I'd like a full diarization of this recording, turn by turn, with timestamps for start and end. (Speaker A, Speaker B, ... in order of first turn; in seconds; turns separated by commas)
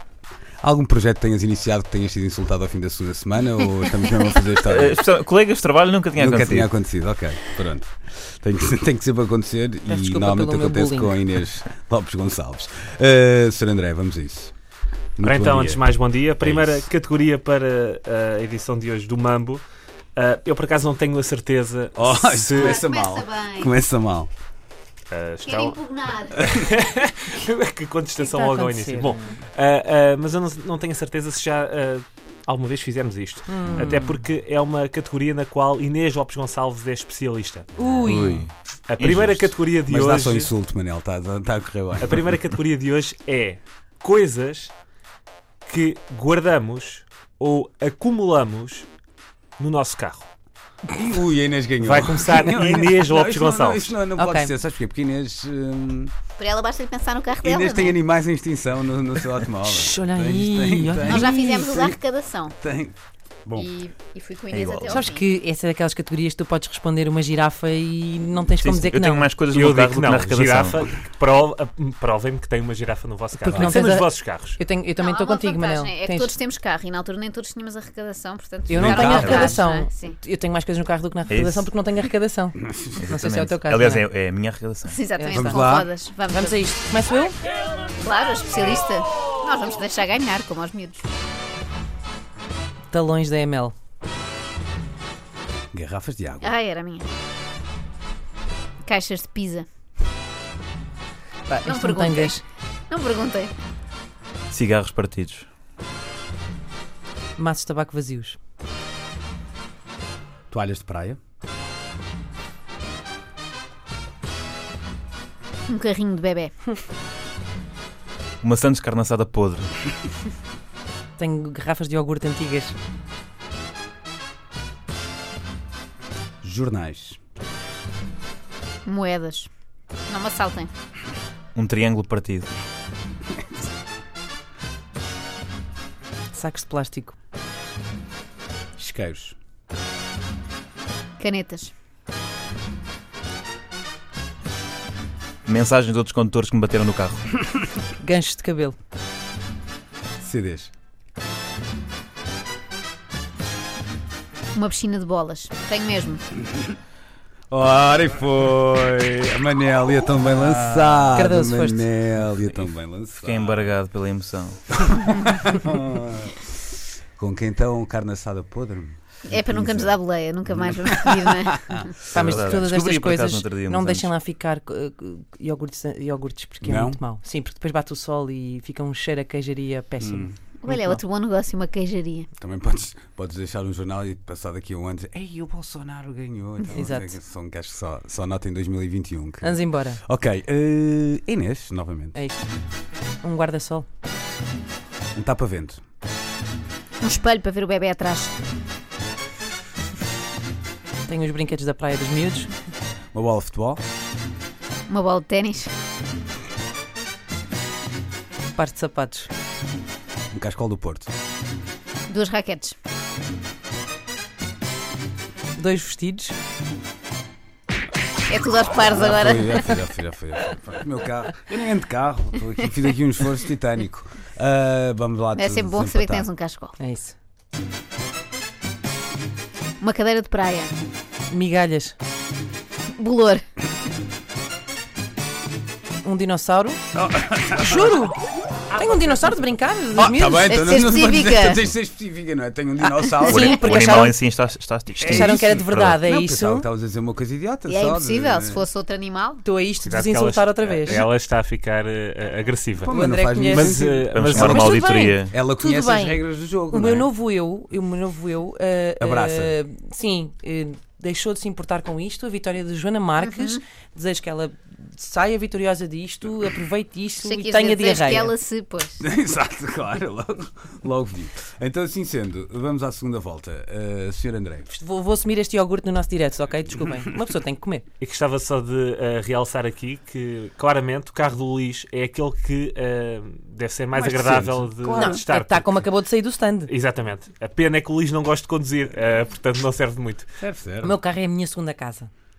Speaker A: 0.6-5.0, Speaker B: 4.7-6.7, Speaker A: 6.2-14.5, Speaker C: 9.8-11.2, Speaker A: 15.2-15.8, Speaker D: 15.2-19.6, Speaker D: 20.1-22.8, Speaker A: 21.9-24.3, Speaker E: 22.5-23.7, Speaker D: 25.1-25.8, Speaker E: 25.4-26.5, Speaker D: 26.4-37.7, Speaker C: 28.1-29.3, Speaker C: 33.5-34.2, Speaker C: 37.8-38.5, Speaker A: 38.0-38.5, Speaker D: 38.9-40.5, Speaker B: 39.0-39.4, Speaker A: 39.8-42.3, Speaker D: 42.0-44.7, Speaker D: 45.6-48.9, Speaker D: 49.6-50.2, Speaker A: 50.9-56.1, Speaker D: 51.8-54.0, Speaker C: 54.1-54.5, Speaker E: 56.4-58.0, Speaker A: 57.4-62.0, Speaker C: 59.6-61.4, Speaker E: 61.0-62.5, Speaker A: 62.5-62.9, Speaker E: 63.5-65.2, Speaker B: 64.5-64.9, Speaker C: 64.8-69.3, Speaker B: 68.6-70.8, Speaker D: 69.5-74.6, Speaker C: 73.4-76.4, Speaker E: 75.0-80.2, Speaker C: 78.7-84.1, Speaker A: 78.8-79.6, Speaker B: 81.3-81.7, Speaker B: 83.0-85.0, Speaker E: 84.8-86.6, Speaker C: 85.1-87.4, Speaker A: 85.3-85.9, Speaker E: 88.0-91.0, Speaker C: 92.9-93.7, Speaker A: 95.7-96.5, Speaker E: 96.4-97.0, Speaker E: 98.8-99.7, Speaker C: 101.5-102.4, Speaker E: 101.6-103.5, Speaker B: 104.5-105.5, Speaker C: 107.4-108.4, Speaker A: 110.5-111.2, Speaker E: 115.7-116.5, Speaker B: 118.4-119.6, Speaker C: 121.2-122.7, Speaker A: 126.4-127.2, Speaker E: 128.8-129.5, Speaker E: 130.1-130.7, Speaker B: 131.6-132.5, Speaker C: 136.3-137.1, Speaker A: 138.8-139.3, Speaker E: 141.2-141.7, Speaker B: 145.5-147.2, Speaker C: 148.0-148.8, Speaker A: 150.2-150.7, Speaker E: 154.5-156.2, Speaker A: 157.5-163.7, Speaker B: 160.4-161.2, Speaker C: 161.1-161.9, Speaker B: 163.2-164.6, Speaker A: 164.7-166.5, Speaker A: 167.2-171.4, Speaker E: 169.3-171.9, Speaker C: 172.1-181.0, Speaker B: 172.2-174.0, Speaker A: 176.6-177.0, Speaker A: 180.0-180.3, Speaker E: 180.6-182.3, Speaker A: 182.4-192.2, Speaker C: 186.7-187.2, Speaker C: 189.4-190.0, Speaker C: 192.1-192.4, Speaker C: 193.2-193.8, Speaker A: 195.1-195.8, Speaker E: 197.0-198.3, Speaker C: 201.1-202.5, Speaker A: 203.1-203.8, Speaker E: 204.9-205.7, Speaker C: 208.6-209.3, Speaker A: 210.3-211.1, Speaker E: 212.1-212.7, Speaker C: 215.6-216.3, Speaker E: 218.3-219.8, Speaker A: 218.8-226.3, Speaker E: 225.3-226.8, Speaker C: 226.8-227.1, Speaker E: 229.8-230.7, Speaker C: 231.3-231.9, Speaker E: 232.9-233.4, Speaker C: 236.0-236.8, Speaker A: 236.9-237.9, Speaker C: 237.6-238.2, Speaker D: 238.7-239.5, Speaker C: 238.7-240.5, Speaker A: 239.9-244.0, Speaker E: 240.4-241.6, Speaker E: 243.0-243.3, Speaker B: 243.3-245.9, Speaker C: 243.3-244.2, Speaker A: 245.0-248.6, Speaker C: 245.1-246.7, Speaker E: 247.7-249.4, Speaker C: 249.4-251.1, Speaker D: 249.8-254.9, Speaker A: 252.8-254.8, Speaker C: 252.9-253.8, Speaker B: 254.1-255.3, Speaker C: 254.8-255.0, Speaker A: 255.3-257.1, Speaker C: 255.6-268.3, Speaker A: 259.0-259.6, Speaker E: 263.2-263.6, Speaker E: 267.2-269.0, Speaker A: 269.0-274.7, Speaker C: 274.7-277.8, Speaker D: 278.0-285.7, Speaker C: 283.9-286.7, Speaker D: 286.7-290.3, Speaker A: 290.4-291.0, Speaker C: 290.8-292.1